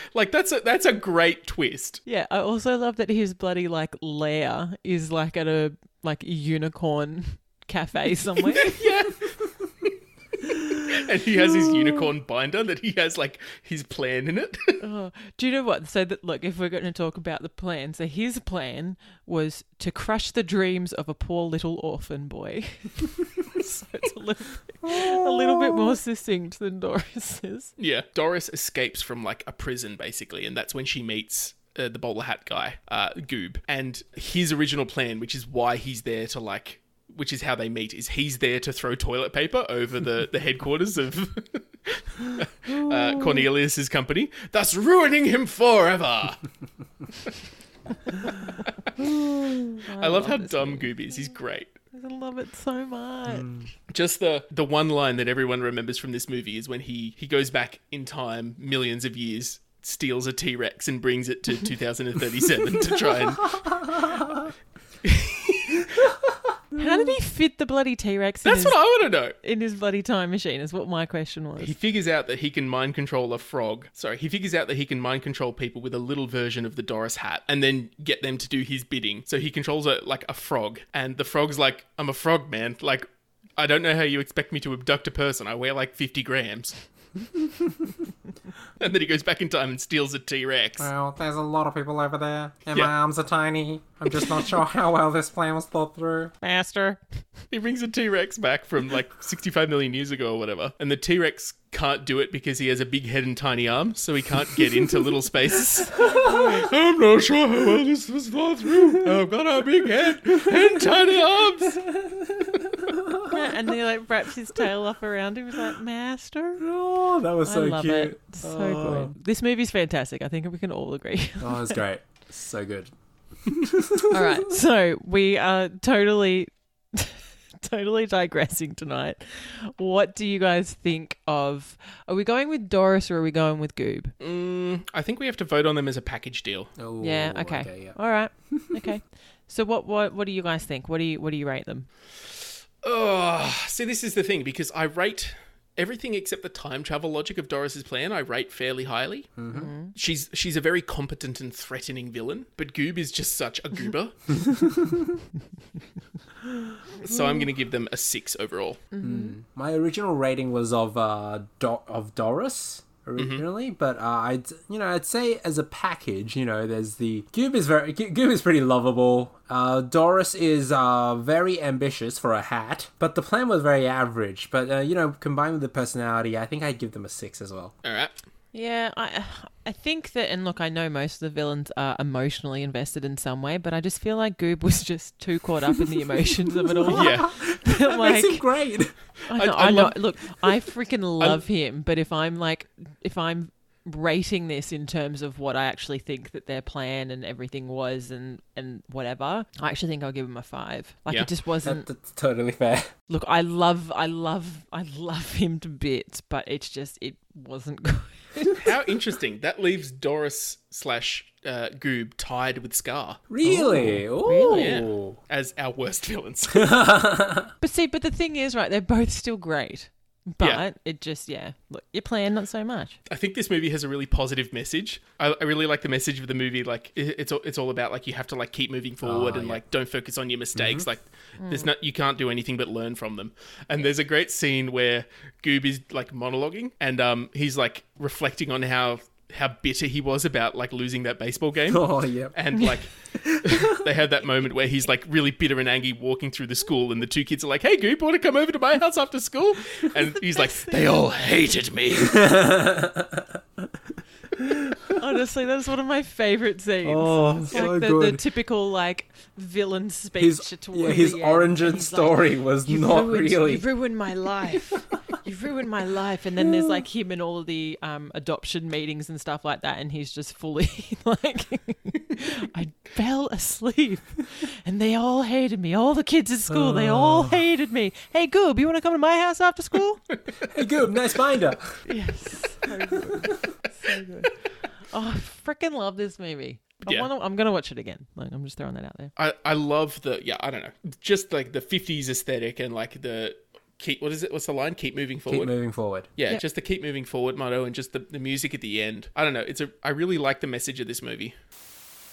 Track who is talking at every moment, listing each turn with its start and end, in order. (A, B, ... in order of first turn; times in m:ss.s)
0:00.1-0:02.0 A
0:02.0-0:08.8 B
0:08.5-0:09.9 A
0:10.6-0:14.8 A
0:14.8-0:27.7 B
0:24.8-0:25.9 C
0:27.8-0:46.4 A
0:49.8-0:51.4 B
0:50.0-0:51.7 A
0:51.9-0:53.5 B
0:53.9-1:04.3 A
1:05.0-1:06.0 A
1:06.8-1:08.8 B
1:08.4-1:09.4 A
1:09.3-1:11.7 B
1:11.6-1:26.8 A
1:28.8-1:30.9 A
1:30.8-1:36.3 C
1:36.4-1:37.0 B
1:37.5-1:51.8 A
1:45.6-1:46.7 B
1:50.4-1:50.8 C
1:51.7-1:53.4 C
1:53.2-1:56.6 B
1:56.6-1:59.1 C
1:57.4-2:01.8 B
2:01.4-2:02.9 C
2:03.5-2:04.4 C
2:04.1-2:14.1 B
2:14.2-2:16.7 A
2:16.8-2:18.0 C
2:17.0-2:21.9 B
2:18.5-2:18.9 C
2:22.8-2:29.3 A
2:29.4-2:29.7 C
2:29.5-2:29.9 B
2:29.9-2:34.4 A
2:34.5-2:35.0 C
2:37.0-2:38.8 A
2:38.9-2:39.4 B
2:39.0-2:57.7 C
2:43.2-2:43.4 A
2:57.8-2:58.2 A
2:58.5-3:08.5 B
3:06.6-3:08.9 C
3:06.9-3:07.3 A
3:09.3-3:10.0 A
3:09.3-3:21.9 B
3:21.6-3:22.9 C
3:23.1-3:28.6 B
3:28.5-3:33.2 A
3:33.3-3:35.2 C
3:33.4-3:34.8 B
3:34.5-3:36.8 A
3:36.5-3:37.5 C
3:37.6-3:43.0 B
3:43.1-4:12.3 A
3:49.0-3:49.6 C
3:50.5-3:50.8 C
3:51.4-3:51.7 B
4:01.7-4:02.4 C
4:03.2-4:03.8 C
4:10.4-4:11.0 B
4:11.9-4:13.7 C
4:14.4-4:14.9 C
4:15.0-4:40.0 B
4:16.8-4:18.2 C
4:20.2-4:23.6 C
4:26.4-4:26.8 C
4:36.5-4:37.4 C
4:40.5-4:41.8 C
4:41.8-4:49.1 B
4:46.8-4:47.1 A
4:49.2-4:55.5 A
4:55.3-4:56.1 C
4:56.2-5:01.3 A